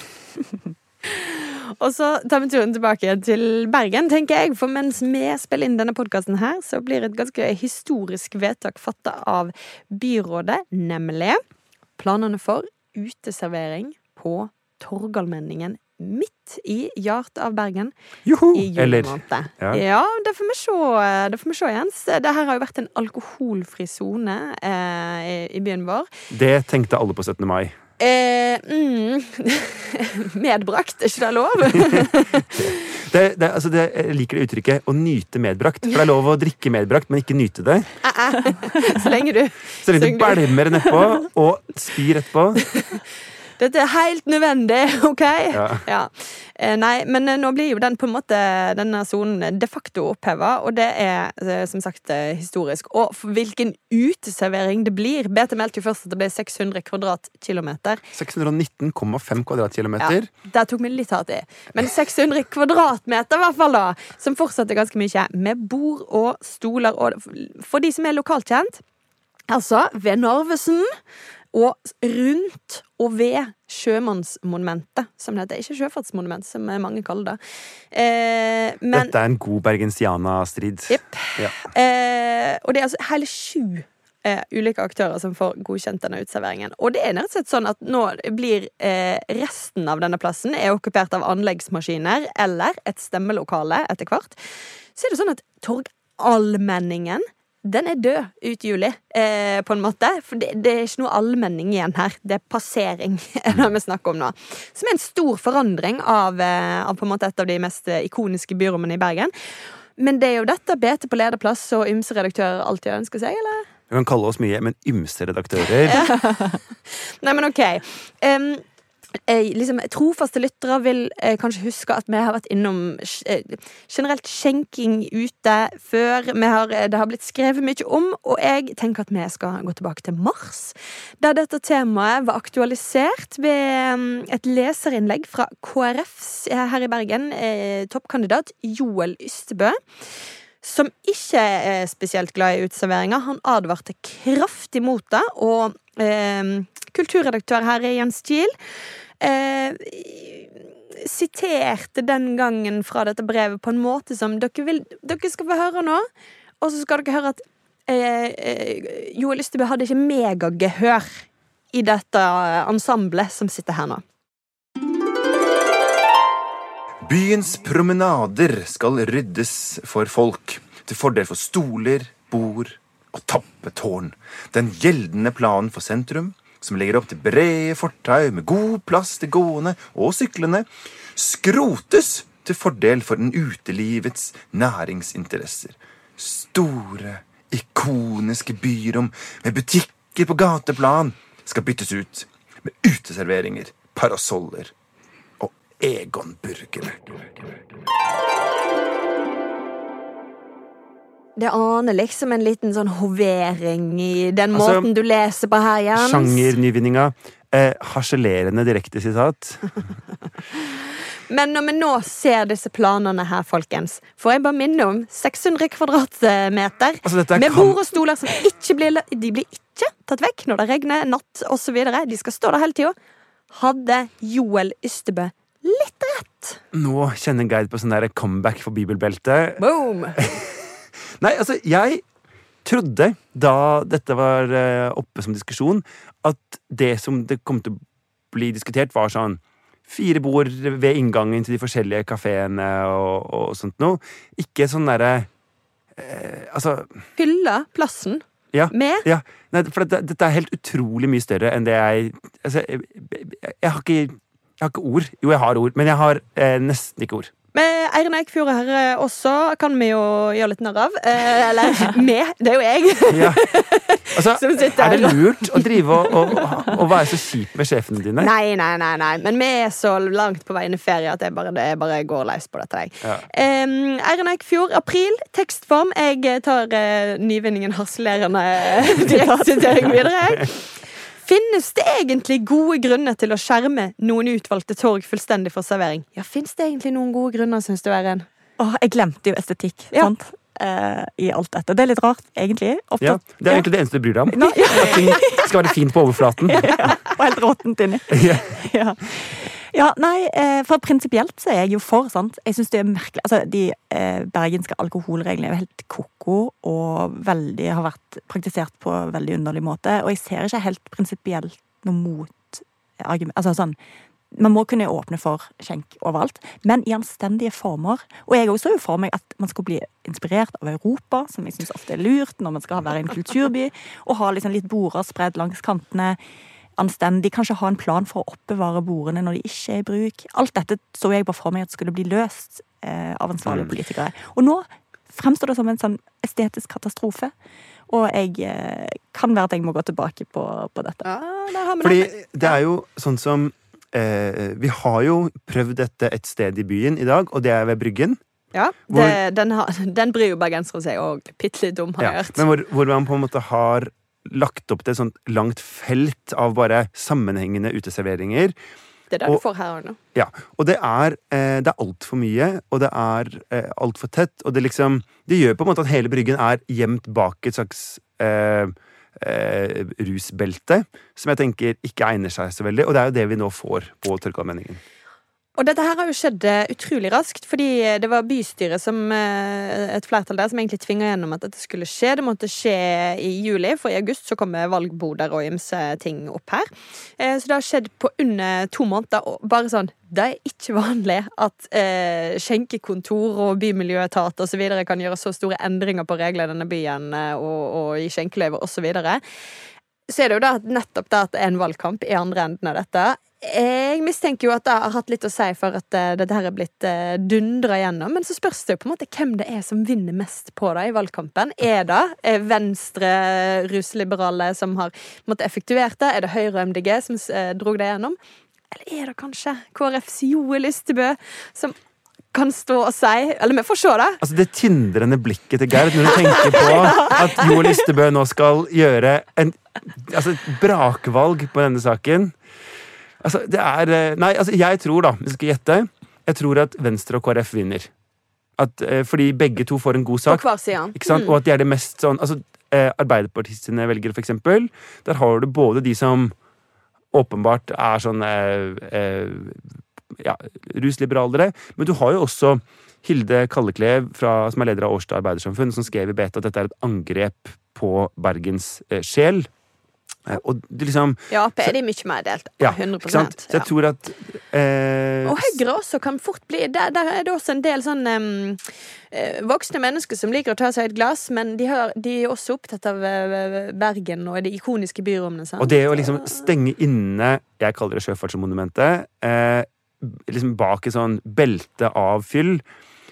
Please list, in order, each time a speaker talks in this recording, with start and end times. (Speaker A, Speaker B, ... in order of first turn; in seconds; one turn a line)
Speaker A: 1.1-11.4
Speaker A: 12.0-17.9
Speaker B: 18.2-19.8
Speaker A: 18.5-26.1
Speaker B: 26.3-27.8
Speaker A: 28.0-32.8
Speaker B: 31.7-38.0
Speaker A: 38.0-41.0
Speaker B: 39.8-42.6
Speaker A: 42.7-43.0
Speaker A: 43.6-58.0
Speaker B: 45.5-45.8
Speaker B: 58.1-60.3
Speaker A: 60.0-68.8
Speaker A: 69.5-71.0
Speaker A: 71.5-77.4
Speaker A: 77.9-79.1
Speaker B: 78.9-81.5
Speaker A: 80.9-109.3
Speaker A: 110.0-113.7
Speaker B: 113.9-116.1
Speaker A: 115.8-118.6
Speaker A: 119.3-139.8
Speaker A: 140.6-148.5
Speaker A: 149.2-156.1
Speaker A: 156.6-164.0
Speaker B: 167.0-194.7
Speaker B: 195.4-197.3
Speaker A: 201.4-206.5
Speaker B: 204.5-204.9
Speaker B: 205.9-209.8
Speaker A: 211.3-222.9
Speaker B: 217.0-217.8
Speaker A: 223.5-226.6
Speaker B: 226.7-229.6
Speaker A: 229.6-230.2
Speaker B: 230.2-232.0
Speaker B: 232.6-237.8
Speaker B: 238.3-245.3
Speaker B: 245.9-247.0
Speaker A: 247.2-249.1
Speaker B: 248.5-257.3
Speaker A: 257.5-266.7
Speaker B: 263.1-263.4
Speaker B: 264.1-268.3
Speaker A: 268.2-288.3
Speaker C: 278.9-279.7
Speaker C: 288.6-293.7
Speaker B: 293.0-296.8
Speaker C: 294.3-295.5
Speaker A: 294.6-295.2
Speaker C: 296.4-313.8
Speaker B: 298.1-298.5
Speaker C: 314.3-326.2
Speaker C: 326.8-337.3
Speaker B: 333.4-333.7
Speaker C: 337.9-341.1
Speaker A: 341.0-342.6
Speaker B: 341.8-348.2
Speaker A: 348.5-352.4
Speaker B: 348.9-349.2
Speaker B: 352.0-358.5
Speaker A: 359.1-360.0
Speaker B: 360.1-374.8
Speaker A: 375.6-399.2
Speaker A: 400.1-418.2
Speaker A: 418.7-421.8
Speaker A: 422.3-424.2
Speaker B: 424.2-432.4
Speaker A: 426.5-427.2
Speaker B: 433.2-437.9
Speaker B: 438.6-446.3
Speaker A: 440.3-441.4
Speaker B: 447.1-459.5
Speaker B: 460.2-461.7
Speaker A: 461.3-463.7
Speaker B: 462.6-465.6
Speaker A: 465.2-476.4
Speaker B: 475.6-482.6